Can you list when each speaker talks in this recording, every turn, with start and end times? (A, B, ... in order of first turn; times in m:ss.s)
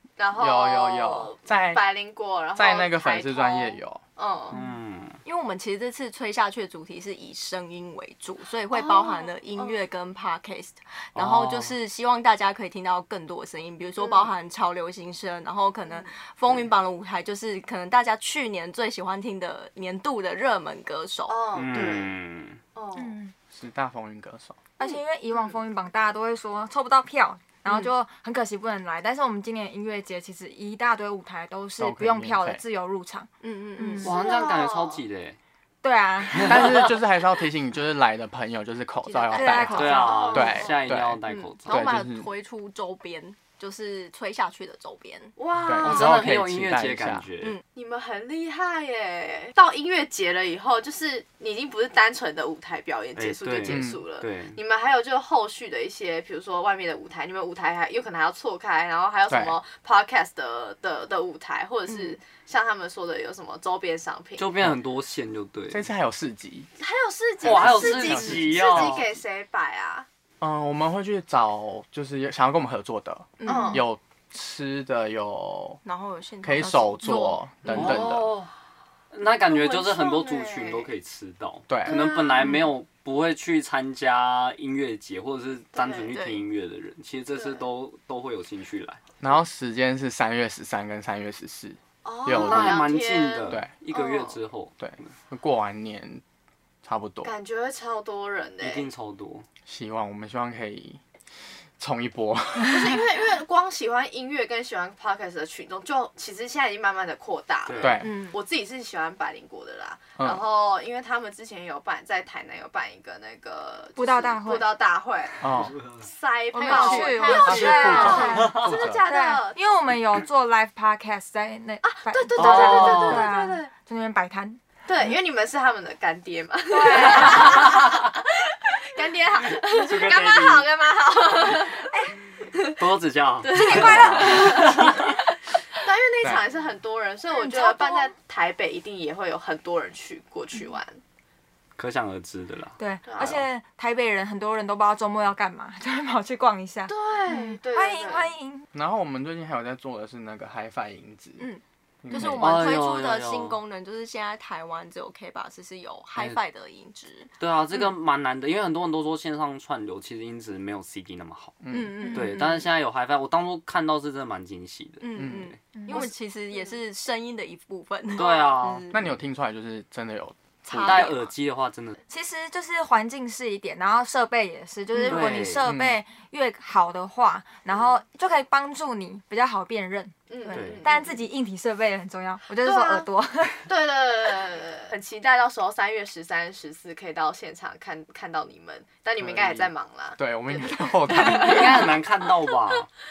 0:00.2-0:04.6 A
0:00.4-0:01.8 B
0:02.6-0:04.0 B
0:04.5-0:05.2 C
0:05.2-0:21.4 D
0:08.7-0:09.8 A
0:11.2-0:11.8 C
0:14.0-0:14.3 A
0:15.8-0:16.1 A
0:21.3-0:22.1 A
0:21.5-0:22.6 C
0:22.7-0:23.2 A
0:23.0-0:23.3 E
0:23.5-0:24.6 B
0:24.8-0:34.1 E
0:31.8-0:32.6 B
0:33.4-0:34.1 D
0:34.0-0:35.0 A
0:34.0-0:35.4 C
0:35.8-0:36.9 E
0:36.4-0:36.7 C
0:36.4-0:42.3 B
0:39.0-0:40.1 D
0:39.3-0:40.4 E
0:39.7-0:41.8 C
0:39.9-0:40.8 A
0:41.3-0:45.3 D
0:45.4-0:46.2 A
0:45.6-0:47.2 B
0:45.8-0:47.6 C
0:47.7-1:04.4 A
0:53.2-0:54.6 C
0:53.7-0:54.0 B
0:59.3-0:59.6 B
1:01.9-1:02.2 D
1:04.4-1:05.9 C
1:05.7-1:06.7 B
1:06.8-1:10.1 A
1:07.4-1:09.2 B
1:07.4-1:09.0 C
1:10.4-1:15.8 B
1:13.4-1:13.8 D
1:13.4-1:13.8 A
1:15.8-1:18.0 D
1:16.4-1:18.2 B
1:17.7-1:18.5 C
1:19.1-1:29.0 C
1:19.4-1:20.9 A
1:21.7-1:22.0 B
1:21.8-1:22.5 A
1:25.8-1:26.1 A
1:26.1-1:26.4 D
1:27.3-1:27.6 A
1:29.2-1:32.8 B
1:32.0-1:34.4 A
1:32.3-1:35.1 C
1:34.8-1:36.2 B
1:36.8-1:37.3 B
1:37.2-1:38.8 A
1:38.6-1:39.4 C
1:39.7-1:41.0 B
1:41.8-1:43.0 B
1:42.7-1:55.4 A
1:47.6-1:48.0 C
1:47.8-1:48.2 B
1:48.0-1:48.4 D
1:54.0-1:54.7 E
1:55.4-1:55.8 B
1:56.0-1:59.6 A
1:56.5-2:04.6 E
1:56.6-1:58.3 D
1:57.4-1:59.0 B
2:01.8-2:03.7 A
2:02.4-2:03.3 C
2:04.8-2:11.9 A
2:06.7-2:07.7 E
2:09.5-2:10.6 C
2:11.5-2:12.1 E
2:12.7-2:15.1 C
2:13.4-2:15.1 A
2:13.5-2:14.8 E
2:15.7-2:21.0 A
2:17.3-2:18.1 E
2:21.8-2:23.4 C
2:22.8-2:28.6 E
2:23.0-2:23.4 A
2:26.9-2:28.3 A
2:28.7-2:31.4 B
2:31.4-2:37.9 D
2:32.0-2:32.7 B
2:32.1-2:33.6 C
2:37.4-2:45.4 C
2:41.6-2:42.1 B
2:41.7-2:42.7 D
2:42.0-2:42.3 E
2:45.0-2:49.1 D
2:45.2-2:45.5 B
2:45.7-2:46.1 E
2:48.2-2:48.9 C
2:48.2-2:48.5 A
2:48.9-2:50.4 B
2:50.7-2:51.1 E
2:50.7-2:51.3 D
2:50.8-2:52.0 C
2:52.1-3:00.2 E
2:55.0-2:55.4 D
2:55.0-2:55.6 C
2:55.6-2:56.0 B
2:57.7-2:58.0 A
3:00.3-3:01.1 A
3:00.5-3:00.8 D
3:00.5-3:00.8 C
3:00.8-3:03.7 E
3:02.6-3:03.1 A
3:03.6-3:11.9 A
3:10.2-3:11.8 B
3:11.3-3:12.9 C